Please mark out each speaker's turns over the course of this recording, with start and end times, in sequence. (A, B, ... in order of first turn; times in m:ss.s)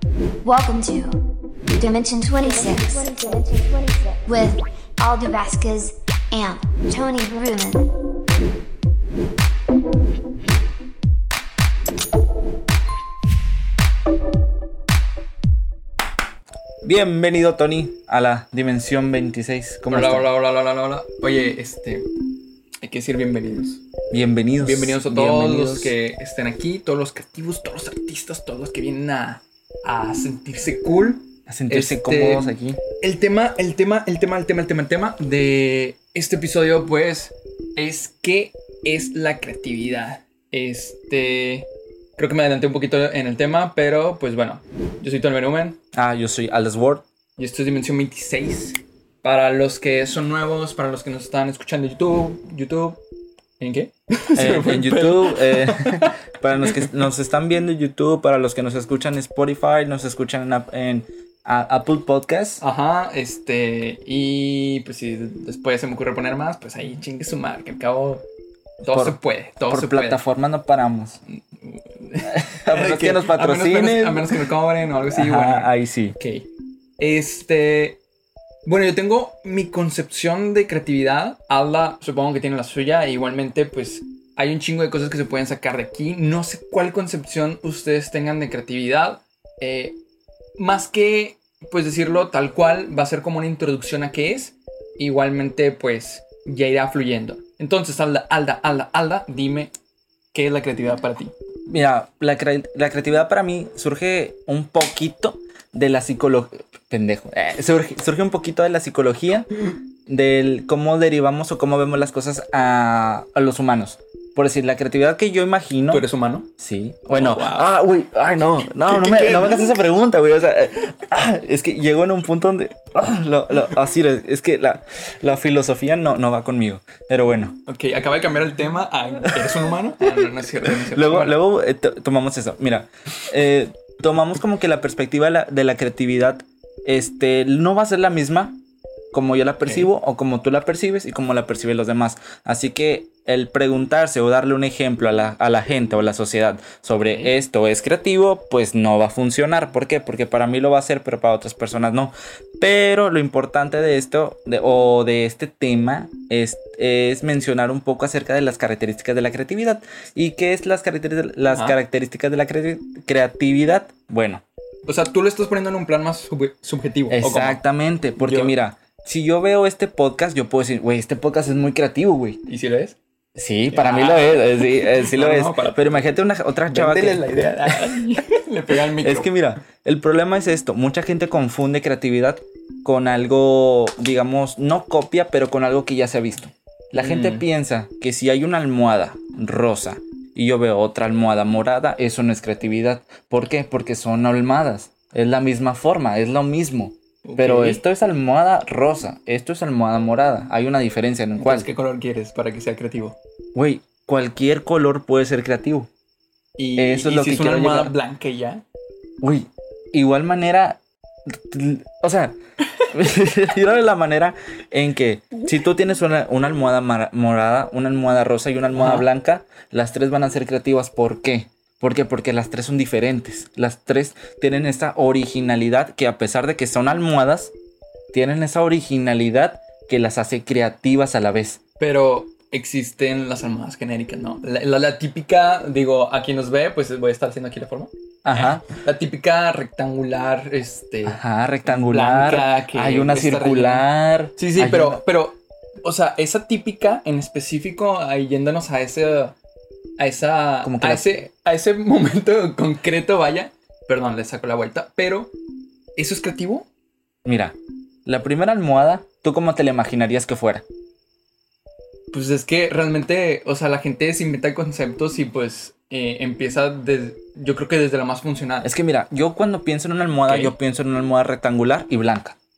0:00.4-0:01.2 A
0:01.8-0:07.9 A
0:16.8-0:20.3 B
0:19.9-0:22.1 C
0:22.8-0:23.8 C
0:24.1-0:25.9 B
0:24.6-0:32.4 C
0:31.5-0:32.8 B
0:33.0-0:45.8 C
0:45.9-0:47.0 B
0:47.4-0:53.0 C
0:53.6-0:56.1 C
0:54.4-1:02.6 B
1:02.6-1:08.2 C
1:08.8-1:10.2 C
1:08.9-1:09.2 B
1:09.7-1:11.2 B
1:11.6-1:16.5 C
1:12.3-1:14.4 B
1:15.1-1:16.2 B
1:17.0-1:18.0 C
1:18.6-1:30.0 C
1:30.6-1:39.7 C
1:40.3-1:41.3 C
1:41.7-1:49.5 B
1:50.1-1:56.0 B
1:55.9-1:56.5 C
1:56.6-2:07.6 B
1:57.1-1:57.7 C
1:58.9-1:59.7 C
2:07.7-2:11.4 C
2:09.4-2:18.6 B
2:19.1-2:44.4 B
2:27.0-2:27.3 C
2:41.5-2:41.8 C
2:44.9-2:47.6 C
2:47.1-2:52.4 B
2:48.2-2:48.5 C
2:52.5-2:53.0 C
2:53.4-2:58.0 B
2:53.7-2:56.0 C
2:56.7-2:59.3 C
2:59.0-3:21.7 B
3:07.0-3:07.4 C
3:17.2-3:17.8 C
3:21.4-3:23.2 C
3:23.6-3:25.9 B
3:26.6-3:28.6 C
3:26.8-3:28.0 B
3:29.2-3:47.5 B
3:38.7-3:39.1 C
3:48.1-3:51.6 B
3:51.8-4:03.8 C
3:58.2-3:58.6 B
4:01.0-4:05.0 B
4:04.4-4:09.4 C
4:10.0-4:15.3 C
4:10.6-4:11.1 B
4:16.0-4:16.7 C
4:17.2-4:20.6 B
4:22.1-4:28.7 C
4:28.6-4:32.4 B
4:30.3-4:30.5 C